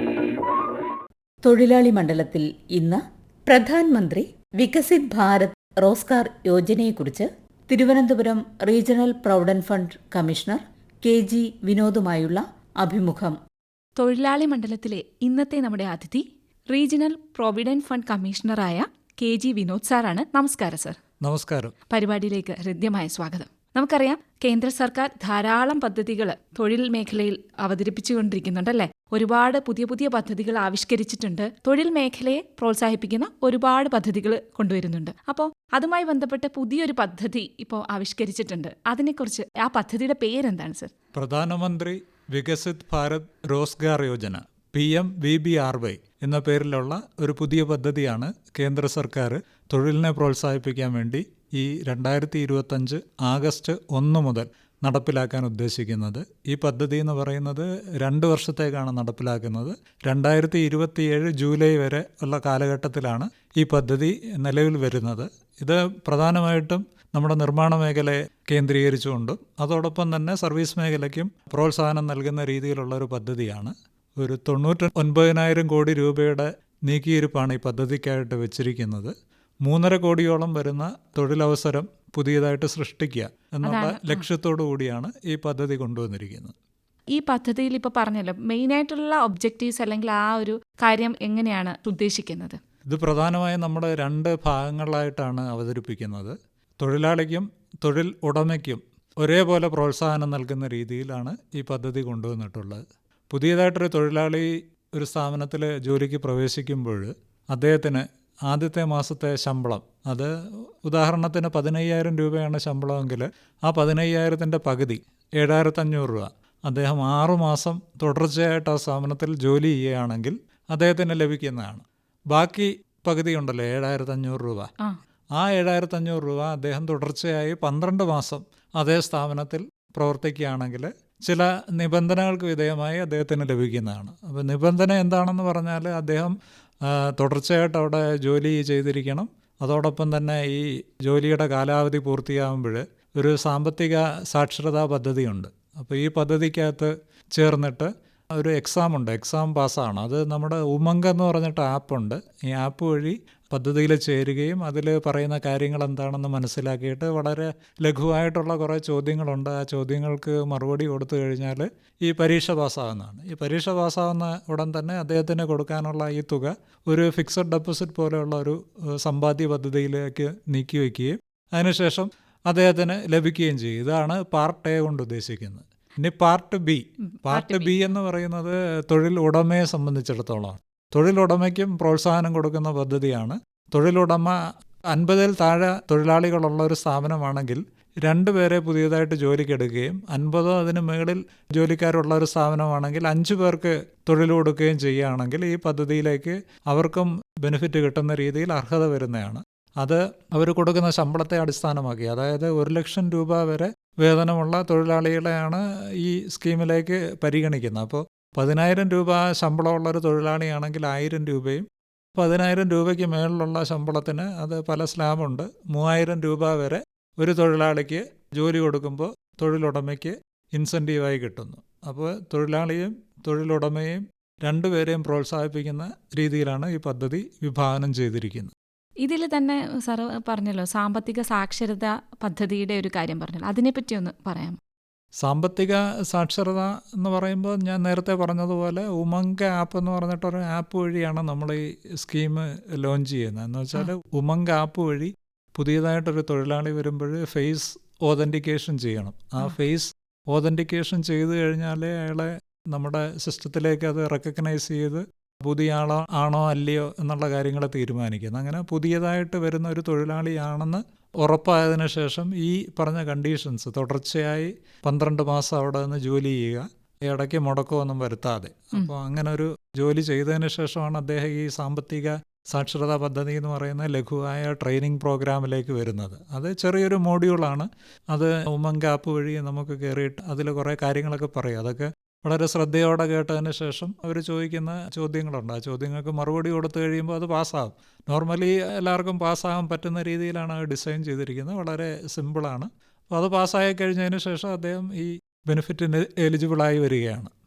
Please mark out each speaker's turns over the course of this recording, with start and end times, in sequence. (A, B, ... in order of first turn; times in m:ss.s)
0:01.4-0:13.4 A
0:14.0-0:21.0 B
0:21.2-0:21.8 C
0:21.9-0:40.9 B
0:41.1-1:19.1 C
1:19.6-1:26.5 C
1:23.6-1:24.2 B
1:27.1-1:32.6 B
1:32.9-2:04.7 C
2:05.4-2:16.3 C
2:16.8-3:04.4 C
2:57.0-2:57.8 B
3:04.9-3:31.6 C
3:32.2-3:48.5 C
3:49.0-3:54.6 B
3:55.2-4:57.3 C